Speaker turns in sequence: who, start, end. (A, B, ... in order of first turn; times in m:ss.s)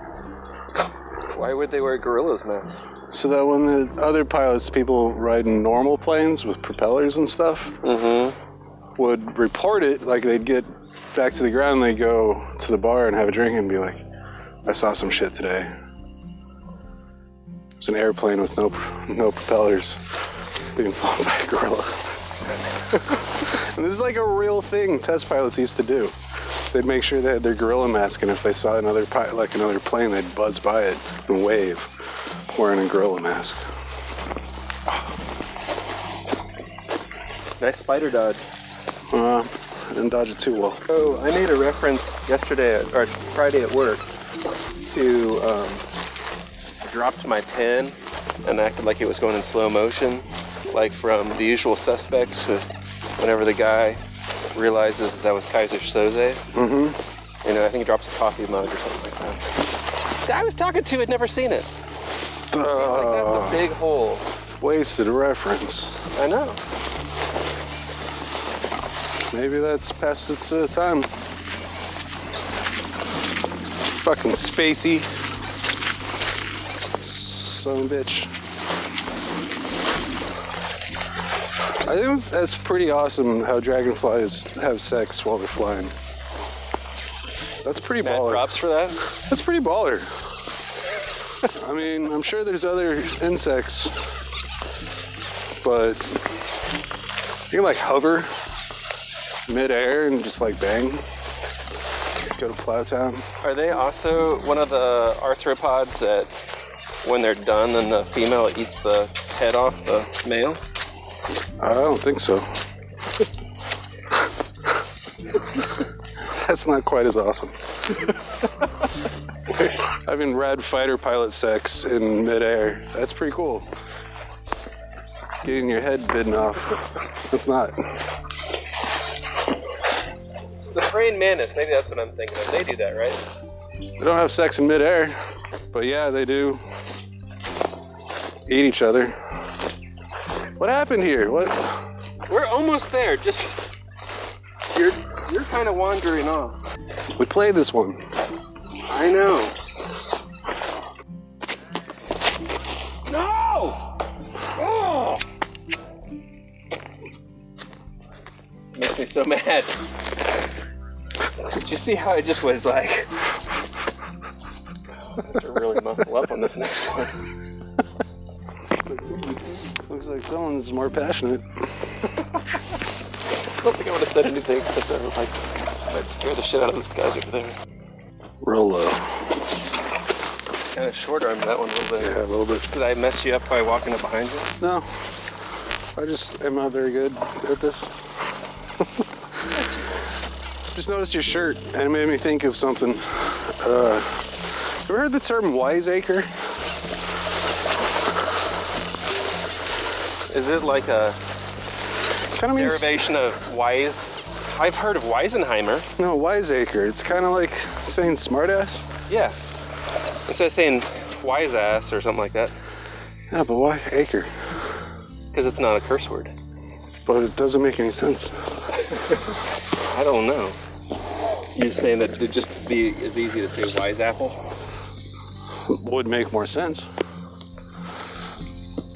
0:01.3-0:02.8 A
0:03.1-0:07.8 B
0:07.8-0:08.4 A
0:09.0-0:14.0 B
0:14.6-0:15.7 B
0:17.8-0:20.0 B
0:20.7-0:22.1 B
0:22.9-0:26.1 B
0:26.7-0:31.9 B
0:32.5-0:33.6 B
0:37.6-0:38.4 A
0:39.1-0:40.8 B
0:40.9-0:44.0 A
0:44.8-0:45.8 A
0:46.8-0:54.0 A
0:54.5-0:56.4 A
0:56.5-0:57.0 B
0:57.4-0:59.4 A
1:00.2-1:01.7 A
1:02.5-1:03.7 B
1:02.7-1:04.2 A
1:04.6-1:06.0 B
1:06.1-1:06.6 A
1:09.3-1:11.1 B
1:14.0-1:15.1 B
1:17.0-1:18.3 B
1:21.8-1:25.9 B
1:27.6-1:28.5 B
1:28.0-1:29.0 A
1:29.2-1:30.1 B
1:31.6-1:34.0 B
1:35.6-1:36.1 B
1:37.5-1:38.3 B
1:39.5-1:41.0 B
1:42.4-1:43.2 B
1:43.4-1:46.3 A
1:47.0-1:50.6 A
1:51.6-1:52.5 B
1:56.3-1:57.5 B
1:59.5-2:03.7 B
2:05.4-2:07.8 B
2:10.7-2:13.2 A
2:14.0-2:15.2 B
2:15.7-2:16.6 B
2:18.5-2:19.2 B
2:20.6-2:21.8 B
2:22.3-2:23.6 A
2:24.7-2:26.6 A
2:27.2-2:28.1 B
2:28.9-2:29.5 A
2:33.0-2:34.0 A
2:34.6-2:35.2 A
2:38.7-2:39.8 A
2:41.5-2:43.1 A
2:45.1-2:47.1 A
2:49.7-2:51.4 B
2:53.6-2:57.6 A
2:58.4-2:59.3 B
3:00.7-3:04.5 A
3:02.0-3:02.7 B
3:04.6-3:04.9 B
3:06.0-3:07.9 B
3:09.5-3:10.0 A
3:10.7-3:14.3 B
3:14.8-3:16.3 B
3:20.3-3:21.2 A
3:22.3-3:23.1 B
3:22.5-3:25.9 A
3:26.0-3:28.9 B
3:29.1-3:29.4 A
3:30.3-3:32.5 A
3:33.3-3:34.3 B
3:35.3-3:36.3 A
3:37.0-3:38.3 B
3:38.8-3:39.3 A
3:39.9-3:40.6 A
3:41.5-3:44.4 A
3:45.7-3:46.9 B